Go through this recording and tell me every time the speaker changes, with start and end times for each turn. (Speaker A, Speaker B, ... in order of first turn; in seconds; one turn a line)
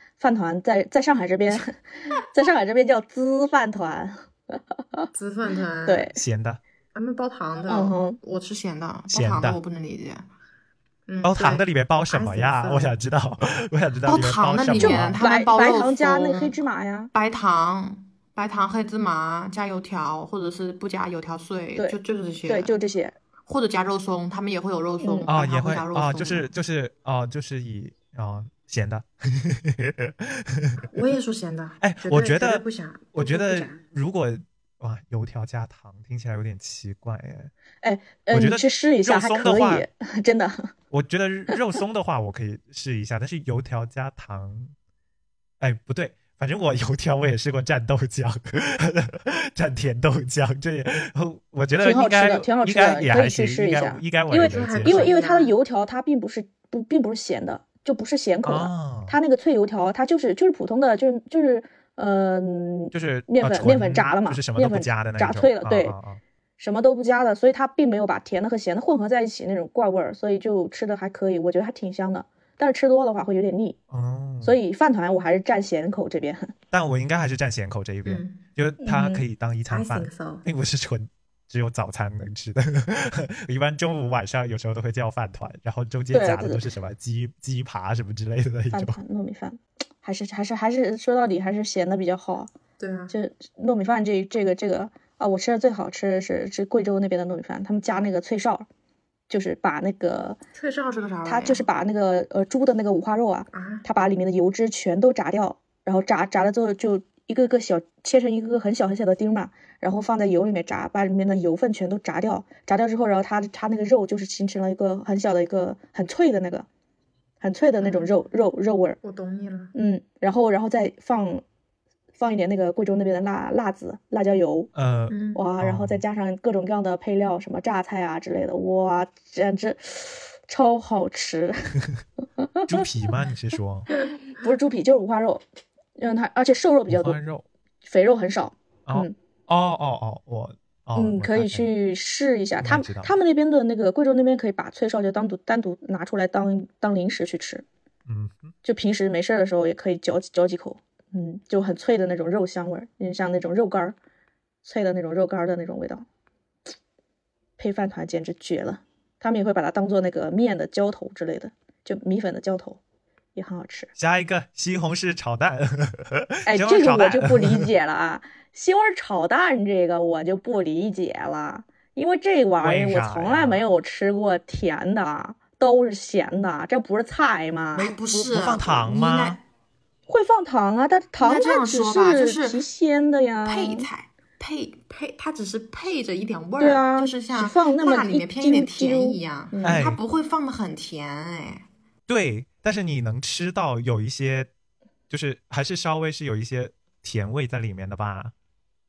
Speaker A: 0.2-5.1
Speaker B: 5.1-6.1
Speaker A: 5.9-6.2
Speaker C: 6.2-6.6
Speaker B: 6.9-10.3
Speaker A: 7.7-8.2
Speaker C: 9.1-9.6
Speaker B: 11.1-13.0
Speaker C: 11.2-15.2
Speaker B: 14.1-16.6
Speaker A: 14.8-17.1
Speaker B: 17.1-22.8
Speaker A: 21.8-23.2
Speaker B: 23.5-26.5
Speaker A: 25.0-25.3
Speaker C: 25.3-30.9
Speaker B: 30.9-33.8
Speaker C: 31.8-37.5
Speaker A: 37.8-40.7
Speaker C: 38.3-39.9
Speaker C: 40.9-44.7
Speaker C: 45.6-55.1
Speaker A: 51.8-66.0
Speaker B: 54.3-55.5
Speaker C: 58.4-59.2
Speaker C: 62.9-66.2
Speaker A: 66.6-73.8
Speaker C: 73.9-74.6
Speaker A: 74.4-76.5
Speaker C: 76.7-89.0
Speaker B: 78.0-78.4
Speaker A: 78.8-79.2
Speaker B: 79.7-80.5
Speaker A: 86.1-86.6
Speaker A: 88.7-92.5
Speaker B: 92.8-93.1
Speaker A: 93.1-98.7
Speaker A: 99.3-100.4
Speaker B: 100.5-101.7
Speaker A: 101.3-116.7
Speaker B: 103.5-103.8
Speaker A: 117.4-119.0
Speaker B: 117.8-118.1
Speaker B: 119.0-119.7
Speaker A: 119.7-121.4
Speaker A: 122.2-124.7
Speaker C: 124.8-126.0
Speaker B: 125.1-125.4
Speaker A: 125.3-131.8
Speaker A: 132.4-132.7
Speaker C: 132.7-133.9
Speaker A: 134.3-135.4
Speaker A: 136.0-137.2
Speaker C: 136.9-137.5
Speaker A: 137.8-139.2
Speaker C: 138.9-141.7
Speaker A: 141.0-147.7
Speaker C: 142.6-143.2
Speaker C: 148.1-148.5
Speaker A: 148.6-154.0
Speaker A: 154.6-156.0
Speaker A: 157.6-162.8
Speaker A: 163.4-163.9
Speaker C: 164.0-167.7
Speaker A: 166.5-177.9
Speaker C: 172.6-173.6
Speaker C: 177.8-179.4
Speaker B: 177.8-179.4
Speaker A: 180.1-183.9
Speaker B: 181.2-182.6
Speaker B: 183.4-191.7
Speaker A: 186.6-189.8
Speaker C: 189.6-190.0
Speaker C: 192.1-194.5
Speaker C: 195.1-198.3